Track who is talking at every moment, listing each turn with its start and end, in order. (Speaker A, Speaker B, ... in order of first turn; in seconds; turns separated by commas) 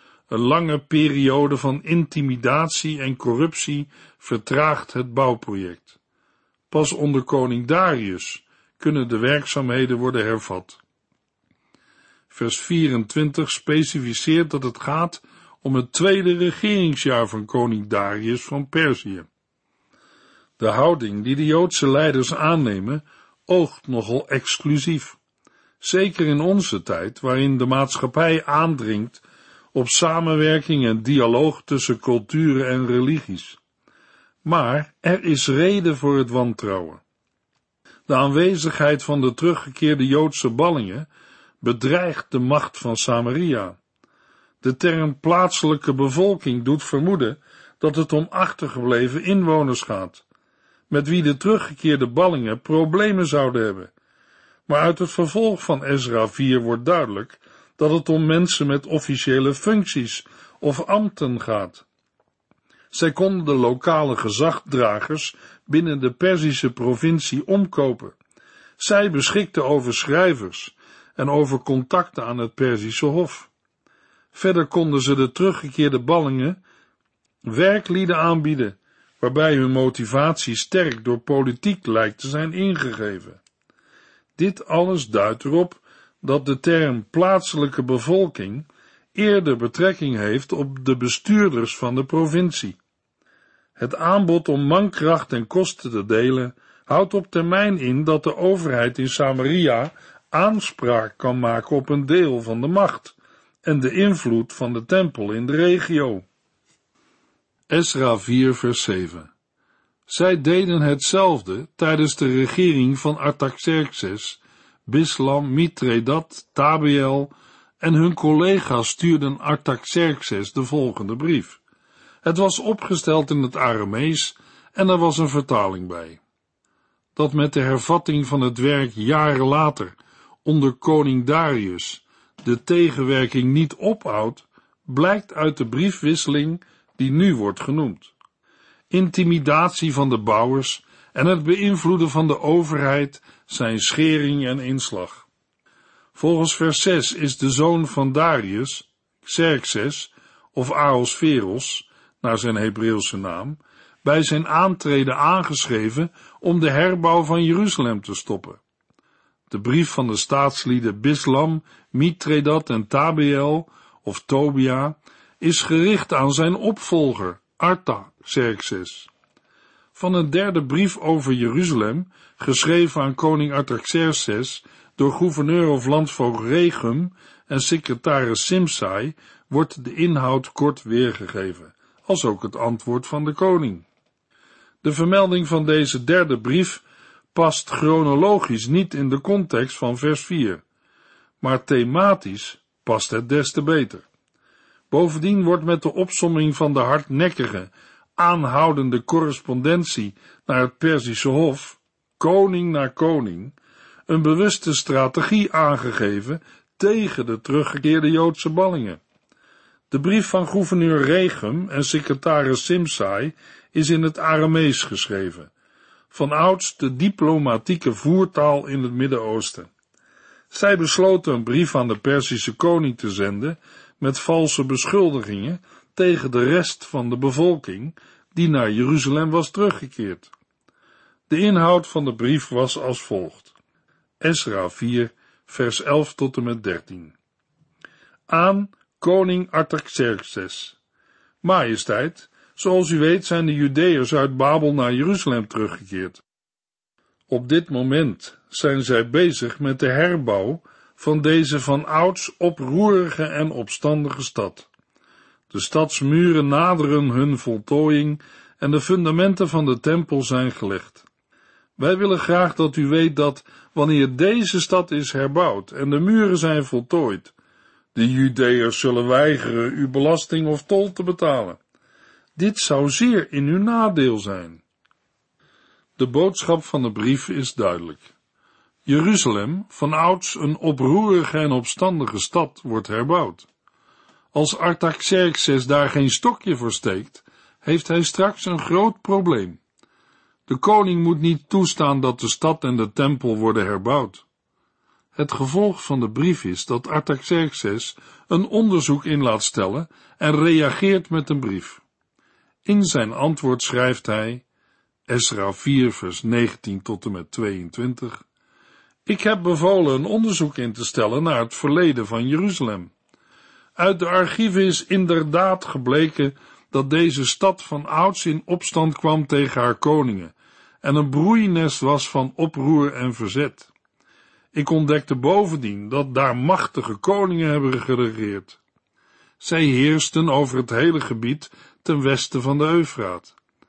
Speaker A: 0.3-6.0, Speaker A: 6.7-10.8, Speaker A: 12.3-19.3, Speaker A: 20.6-25.2, Speaker A: 25.8-29.2, Speaker A: 29.7-33.6, Speaker A: 34.4-37.0, Speaker A: 38.1-41.1, Speaker A: 41.6-43.8, Speaker A: 44.6-50.2, Speaker A: 50.9-53.9, Speaker A: 54.7-61.8, Speaker A: 62.9-68.1, Speaker A: 68.8-73.5, Speaker A: 74.3-76.6, Speaker A: 77.4-83.4, Speaker A: 84.3-92.8, Speaker A: 93.8-106.2, Speaker A: 107.7-109.3, Speaker A: 110.1-121.6, Speaker A: 122.2-126.2, Speaker A: 127.2-138.1, Speaker A: 138.9-145.2, Speaker A: 146.1-158.6, Speaker A: 159.5-169.1, Speaker A: 169.9-183.8, Speaker A: 184.8-190.6, Speaker A: 191.4-194.1, Speaker A: 194.9-203.6, Speaker A: 204.1-209.0, Speaker A: 209.9-215.5, Speaker A: 216.1-219.7, Speaker A: 220.5-230.3, Speaker A: 231.3-233.5, Speaker A: 234.2-237.1, Speaker A: 238.3-240.8, Speaker A: 241.4-246.2, Speaker A: 247.3-254.7, Speaker A: 255.5-261.0, Speaker A: 261.8-267.3, Speaker A: 267.9-271.6, Speaker A: 272.4-274.6, Speaker A: 276.0-278.1, Speaker A: 278.8-283.5, Speaker A: 284.3-289.6, Speaker A: 290.5-294.2, Speaker A: 295.1-301.8, Speaker A: 302.6-304.4, Speaker A: 305.1-308.2, Speaker A: 309.1-312.9, Speaker A: 313.8-323.7, Speaker A: 324.5-328.6, Speaker A: 329.4-333.3